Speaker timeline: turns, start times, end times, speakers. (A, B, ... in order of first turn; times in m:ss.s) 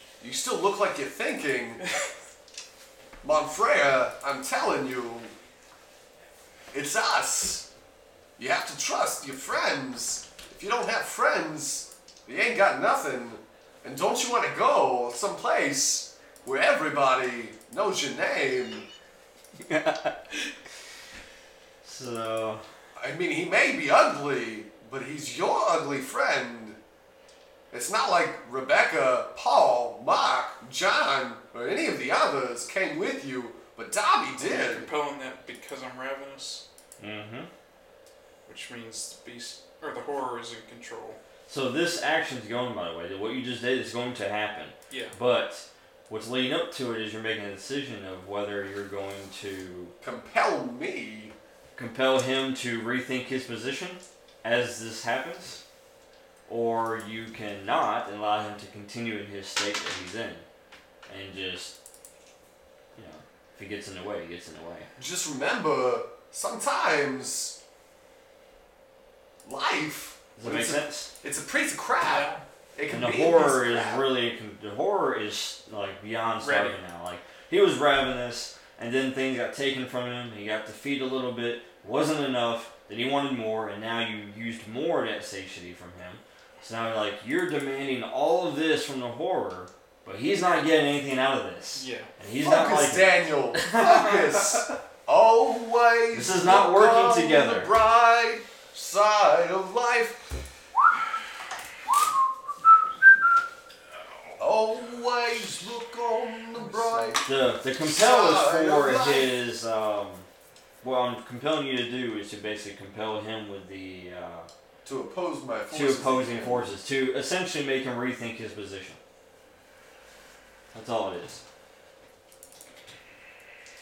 0:00.2-0:01.8 A
0:03.2-0:05.3 A
0:06.7-0:07.7 A
0:08.4-0:18.9 A
0:19.6-0:20.1 B
0:21.8-0:22.6 B
0:23.0-0:26.8 A
0:27.7-0:34.9 A
0:34.4-0:36.6 C
0:37.0-0:37.5 B
0:38.5-0:41.2 C
0:41.5-0:49.9 B
0:44.9-0:45.2 C
0:50.0-0:51.3 A
0:51.8-0:55.6 B
0:56.5-1:00.4 B
1:01.1-1:01.8 B
1:03.0-1:04.9 B
1:05.0-1:07.6 A
1:09.4-1:14.1 A
1:10.4-1:11.1 B
1:12.0-1:12.4 C
1:12.9-1:34.7 B
1:16.4-1:16.8 C
1:31.8-1:32.1 C
1:32.4-1:40.2 A
1:36.1-1:37.7 B
1:44.4-1:47.3 A
1:46.8-1:47.2 C
1:47.2-1:50.3 B
1:47.8-1:49.4 A
1:50.8-1:54.5 B
1:54.8-1:56.7 A
1:55.7-1:59.0 B
2:00.7-2:01.4 B